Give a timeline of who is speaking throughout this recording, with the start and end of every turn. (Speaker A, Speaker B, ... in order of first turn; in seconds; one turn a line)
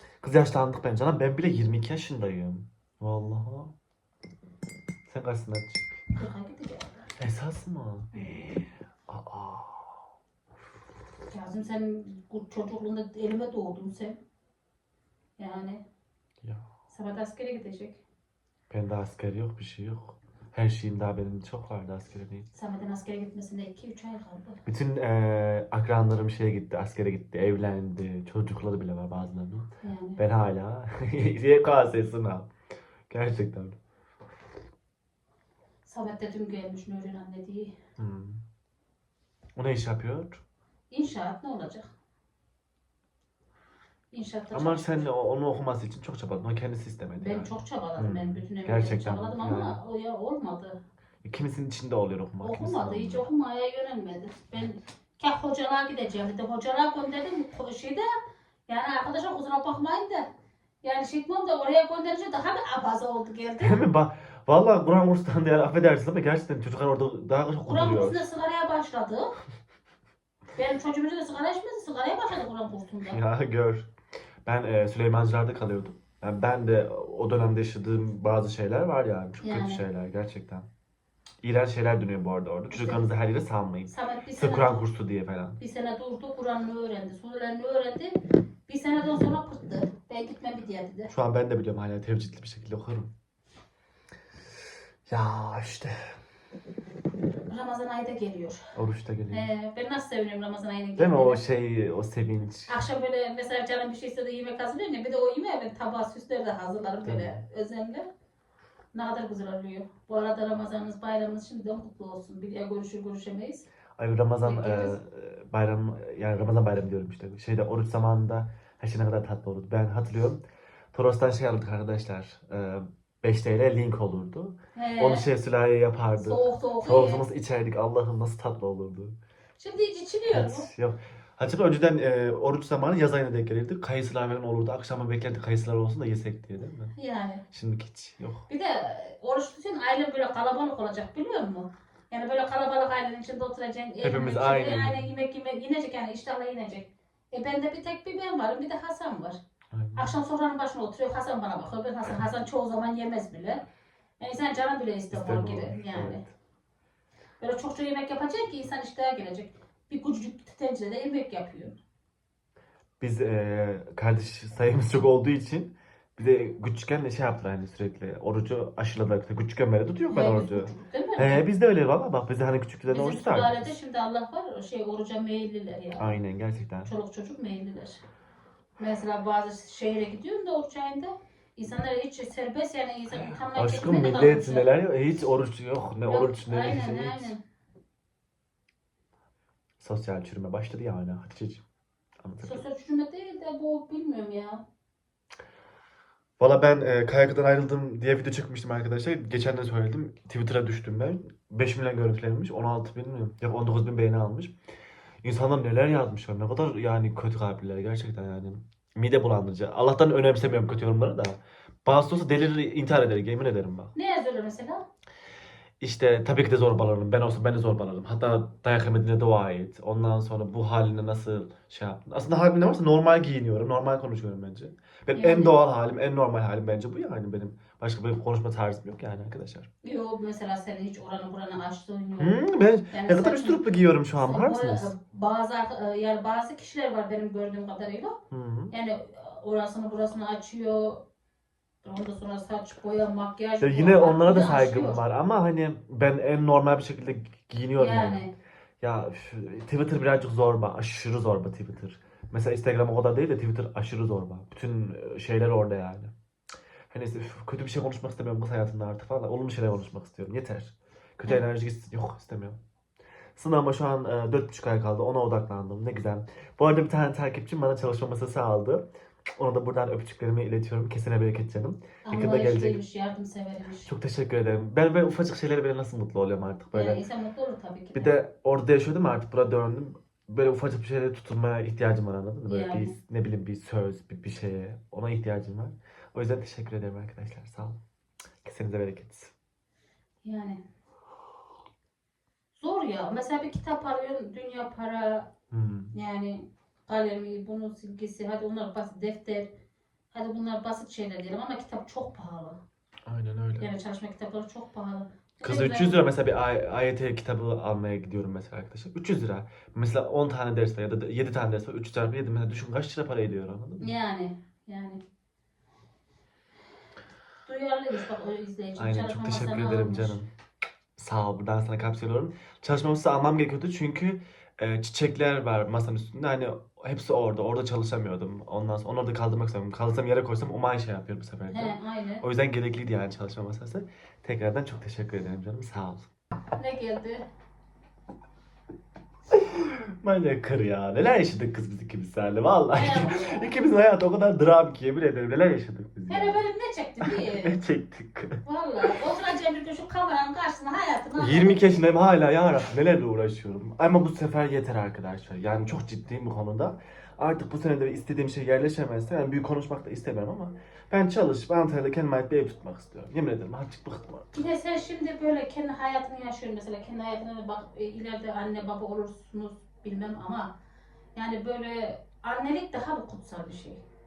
Speaker A: 0.2-3.7
Speaker A: 5.1-6.0
Speaker B: 6.2-7.1
Speaker A: 7.2-10.0
Speaker B: 11.3-14.2
Speaker B: 15.4-15.8
Speaker B: 16.9-18.0
Speaker A: 18.7-22.5
Speaker B: 22.5-24.6
Speaker A: 24.7-32.5
Speaker B: 29.8-30.2
Speaker A: 33.1-33.8
Speaker B: 35.9-37.8
Speaker A: 38.0-38.4
Speaker A: 39.6-40.4
Speaker B: 40.9-41.9
Speaker B: 44.1-45.1
Speaker A: 44.5-49.8
Speaker B: 47.2-50.8
Speaker A: 51.2-53.3
Speaker B: 52.4-58.1
Speaker B: 58.7-60.3
Speaker B: 60.8-63.8
Speaker A: 63.6-68.2
Speaker B: 67.7-69.4
Speaker B: 70.6-73.2
Speaker A: 73.0-73.9
Speaker A: 74.5-80.7
Speaker B: 79.4-79.8
Speaker A: 81.4-85.6
Speaker B: 82.7-83.0
Speaker B: 83.9-84.8
Speaker B: 85.6-88.2
Speaker B: 88.7-91.1
Speaker A: 91.1-93.1
Speaker A: 95.1-96.1
Speaker B: 97.5-98.7
Speaker A: 98.8-99.5
Speaker B: 99.3-101.4
Speaker A: 101.0-102.8
Speaker B: 102.7-108.1
Speaker A: 107.0-107.4
Speaker B: 108.9-113.7
Speaker A: 114.0-129.2
Speaker B: 114.4-115.0
Speaker B: 124.8-125.2
Speaker B: 126.2-127.2
Speaker B: 129.6-130.7
Speaker A: 130.3-136.9
Speaker B: 137.0-137.4
Speaker A: 137.5-138.5
Speaker B: 138.5-149.4
Speaker A: 144.0-145.1
Speaker A: 149.7-150.2
Speaker B: 150.0-153.6
Speaker B: 154.2-156.2
Speaker A: 155.1-156.3
Speaker B: 157.4-161.8
Speaker A: 163.0-173.8
Speaker B: 170.1-171.4
Speaker B: 172.9-176.1
Speaker A: 176.0-176.9
Speaker B: 176.9-178.0
Speaker B: 178.8-184.7
Speaker A: 183.3-187.3
Speaker B: 186.1-187.4
Speaker A: 189.8-191.6
Speaker A: 192.2-192.7
Speaker B: 192.4-194.6
Speaker A: 196.4-204.6
Speaker A: 205.2-213.9
Speaker B: 213.9-214.8
Speaker A: 215.8-229.7
Speaker B: 225.2-225.6
Speaker B: 229.8-232.4
Speaker A: 232.2-234.9
Speaker B: 232.9-233.6
Speaker B: 234.2-238.2
Speaker A: 238.3-238.7
Speaker B: 238.7-241.1
Speaker B: 241.8-245.0
Speaker A: 243.6-248.3
Speaker B: 247.8-248.3
Speaker A: 248.8-256.1
Speaker A: 256.9-262.6
Speaker A: 263.4-272.8
Speaker B: 272.0-273.9
Speaker A: 273.8-277.0
Speaker B: 276.7-278.2
Speaker A: 277.9-287.8
Speaker B: 282.5-282.9
Speaker A: 288.4-289.3
Speaker B: 290.2-290.6
Speaker B: 292.6-295.3
Speaker A: 295.5-295.9
Speaker B: 295.9-299.5
Speaker B: 300.1-302.6
Speaker A: 303.1-303.7
Speaker B: 303.6-306.0
Speaker A: 305.4-313.9
Speaker B: 313.8-315.0
Speaker B: 317.4-320.2
Speaker A: 318.8-320.3
Speaker A: 321.0-336.1
Speaker B: 331.5-332.2
Speaker B: 336.6-337.2
Speaker A: 339.3-346.4
Speaker B: 342.7-343.5
Speaker B: 346.1-347.6
Speaker A: 347.0-348.9
Speaker B: 348.4-351.7
Speaker A: 351.2-364.5
Speaker B: 364.3-370.5
Speaker B: 371.2-373.8